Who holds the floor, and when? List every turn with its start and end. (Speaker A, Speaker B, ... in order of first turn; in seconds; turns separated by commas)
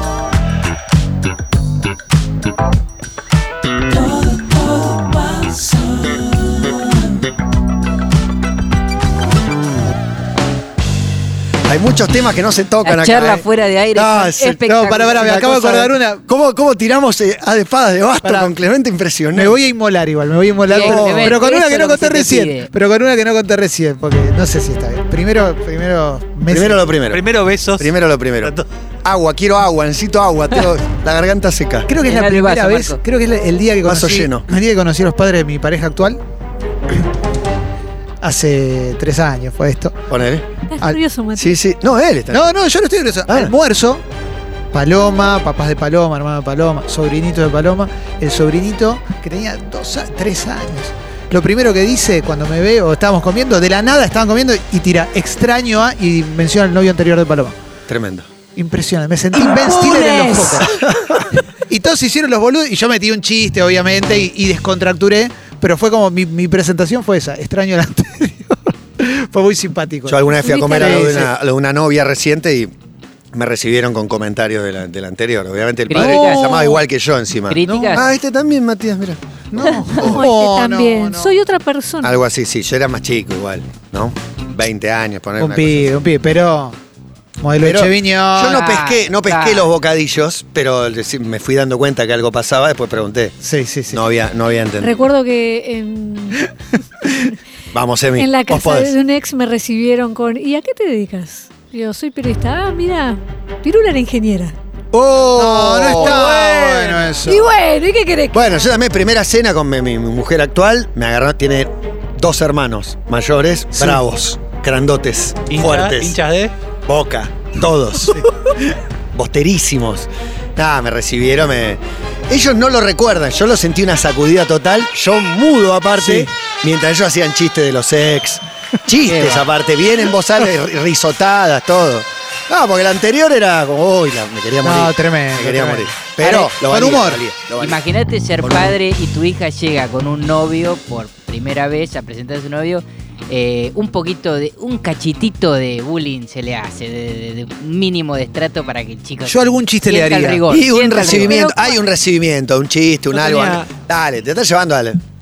Speaker A: 3.9-7.2, Speaker B: 11.7-19.5, Speaker C: 12.8-15.2, Speaker D: 14.5-16.2, Speaker D: 18.2-18.5, Speaker D: 19.3-26.9, Speaker C: 20.6-22.7, Speaker B: 20.8-21.3, Speaker B: 26.5-27.2, Speaker E: 27.1-27.9, Speaker B: 27.8-31.9, Speaker E: 28.4-28.7, Speaker D: 31.9-36.2, Speaker C: 32.0-33.0, Speaker B: 33.8-34.4, Speaker D: 38.2-40.1, Speaker B: 40.1-40.4, Speaker F: 40.7-41.5, Speaker B: 41.4-42.5, Speaker D: 42.3-44.0, Speaker D: 44.7-57.5, Speaker B: 57.9-58.3, Speaker D: 58.5-60.8, Speaker F: 59.4-60.6, Speaker B: 60.7-61.2, Speaker D: 61.7-71.3, Speaker B: 70.1-72.7, Speaker F: 70.4-71.1, Speaker B: 73.3-80.3, Speaker C: 75.9-76.8, Speaker D: 76.0-76.4, Speaker C: 77.5-78.1, Speaker D: 77.7-78.0, Speaker D: 79.5-81.3, Speaker F: 79.9-82.1, Speaker B: 82.0-85.9, Speaker D: 85.4-86.8, Speaker D: 87.4-88.6, Speaker B: 87.6-93.3, Speaker C: 88.5-89.7, Speaker D: 93.4-94.0, Speaker B: 93.9-95.0, Speaker F: 94.8-96.4, Speaker D: 97.0-97.3, Speaker B: 97.7-99.0, Speaker F: 98.2-104.5, Speaker B: 104.9-106.6, Speaker D: 105.3-107.5, Speaker E: 106.0-107.1, Speaker F: 107.2-108.4, Speaker B: 108.3-116.2, Speaker D: 113.7-114.0, Speaker E: 115.5-116.5, Speaker B: 116.9-118.3, Speaker B: 119.1-137.8, Speaker D: 126.0-126.3, Speaker C: 129.0-129.5, Speaker D: 134.6-137.2, Speaker C: 137.6-151.4, Speaker B: 138.4-138.8, Speaker D: 149.2-150.4, Speaker B: 150.5-155.0, Speaker F: 151.1-151.9, Speaker E: 153.1-153.7